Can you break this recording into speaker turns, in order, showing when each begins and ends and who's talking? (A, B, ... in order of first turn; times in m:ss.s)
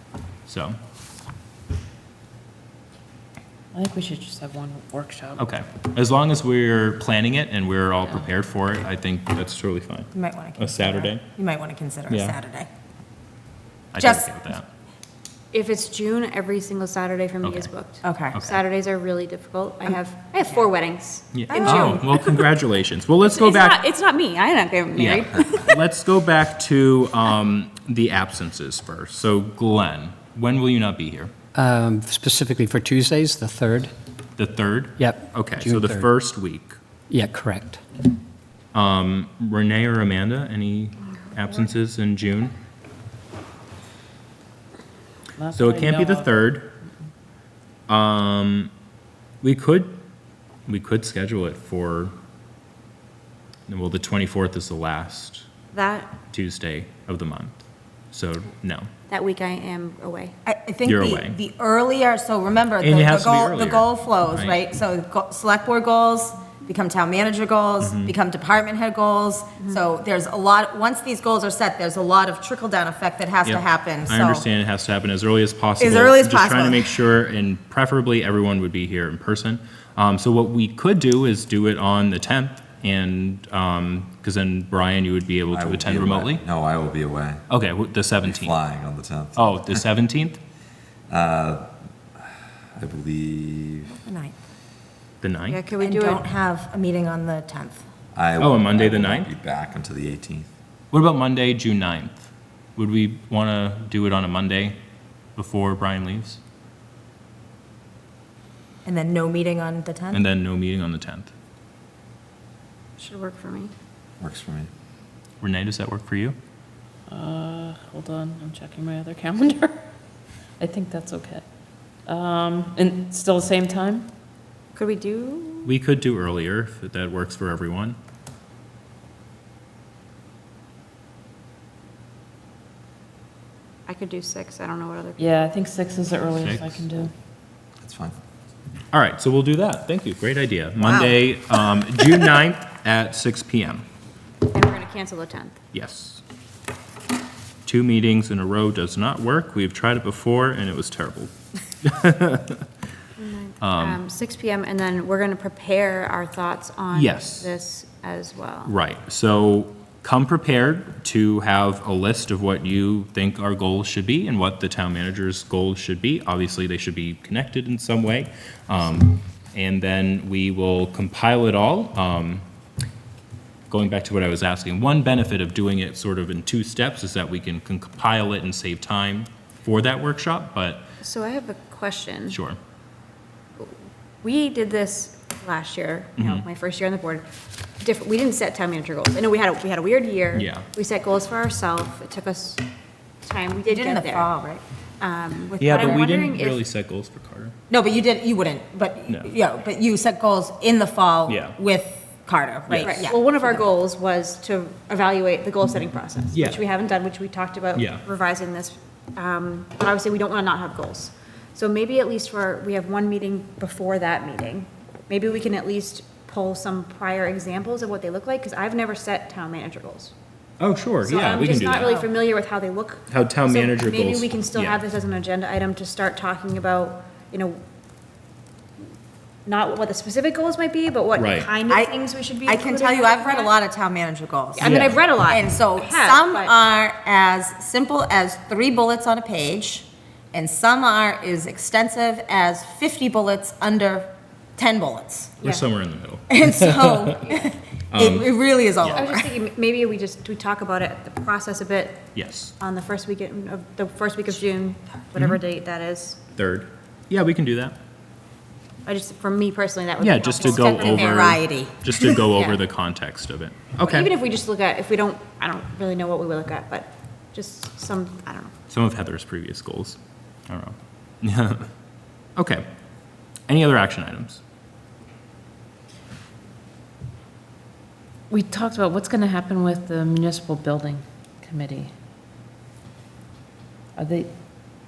0:00.5-0:00.8 A
0:03.7-0:05.4 B
0:05.4-0:11.2 A
0:10.1-0:12.7 C
0:12.1-0:12.4 A
0:13.9-0:14.7 A
0:14.0-0:14.3 C
0:15.5-0:22.5 D
0:17.4-0:17.7 A
0:18.0-0:18.4 C
0:18.3-0:18.6 A
0:21.3-0:23.8 A
0:21.5-0:22.1 C
0:23.2-0:25.8 D
0:25.0-0:31.3 A
0:31.6-0:33.9 E
0:34.4-0:36.8 A
0:35.0-0:36.0 E
0:37.1-0:37.8 E
0:38.7-0:42.5 A
0:45.4-0:46.3 B
0:45.5-0:46.7 A
0:47.9-0:48.7 A
0:49.4-0:50.0 A
0:50.7-0:52.1 A
0:53.7-0:55.5 A
0:55.7-0:56.1 D
0:56.3-0:57.6 A
0:58.1-0:58.9 A
0:59.1-1:00.4 D
1:00.5-1:14.5 C
1:00.9-1:01.4 A
1:02.8-1:04.6 A
1:07.8-1:08.1 A
1:13.4-1:26.4 A
1:15.8-1:16.9 C
1:25.5-1:27.4 F
1:27.5-1:28.6 A
1:28.2-1:29.8 F
1:29.4-1:30.4 A
1:31.1-1:31.7 F
1:32.8-1:34.0 F
1:33.9-1:34.4 C
1:35.2-1:35.7 A
1:35.5-1:36.2 D
1:35.8-1:37.8 C
1:38.1-1:40.5 F
1:38.4-1:39.3 A
1:40.9-1:44.8 A
1:45.4-1:46.4 A
1:48.8-1:50.2 C
1:50.1-1:51.3 A
1:53.0-1:53.7 D
1:54.2-1:54.7 F
1:55.4-1:56.4 A
1:57.1-1:59.8 B
2:00.6-2:01.4 B
2:02.1-2:04.1 B
2:04.8-2:05.8 D
2:05.6-2:08.0 A
2:13.9-2:15.5 D
2:15.2-2:17.1 B
2:16.4-2:16.8 A
2:17.8-2:18.2 F
2:18.9-2:23.8 A
2:24.5-2:25.6 D
2:25.7-2:26.2 A
2:27.7-2:31.3 A
2:31.8-2:32.6 A
2:33.2-2:38.7 D
2:33.6-2:34.0 A
2:36.9-2:37.5 A
2:38.6-2:52.4 A
2:53.7-3:00.9 A
3:01.0-3:02.4 D
3:02.3-3:02.6 A
3:03.6-3:07.3 D
3:06.2-3:06.5 A
3:07.8-3:12.6 D
3:10.3-3:10.7 A
3:13.2-3:14.3 D
3:13.7-3:14.6 C
3:15.0-3:16.6 D
3:15.6-3:17.6 A
3:15.7-3:16.1 C
3:17.7-3:23.6 C
3:21.3-3:21.6 A
3:22.7-3:23.1 A
3:22.8-3:40.1 D
3:26.3-3:26.6 A
3:27.8-3:28.0 A
3:40.6-3:42.1 A
3:41.0-3:47.6 D
3:43.1-3:44.8 A
3:49.5-3:53.5 D
3:51.2-3:51.5 A
3:52.4-4:05.4 C
3:54.6-3:56.5 D
3:54.6-3:55.0 A
4:05.4-4:05.7 D
4:05.4-4:07.1 A
4:06.3-4:09.3 C
4:07.9-4:08.3 A
4:08.9-4:16.2 D
4:12.2-4:12.5 A
4:16.4-4:17.8 A
4:18.9-4:21.4 D
4:20.0-4:24.1 A
4:20.4-4:22.1 C
4:22.3-4:22.6 D
4:23.8-4:28.5 D
4:28.7-4:31.7 A
4:32.4-4:32.6 A
4:33.5-4:34.4 A
4:38.3-4:41.9 B
4:44.0-4:44.3 B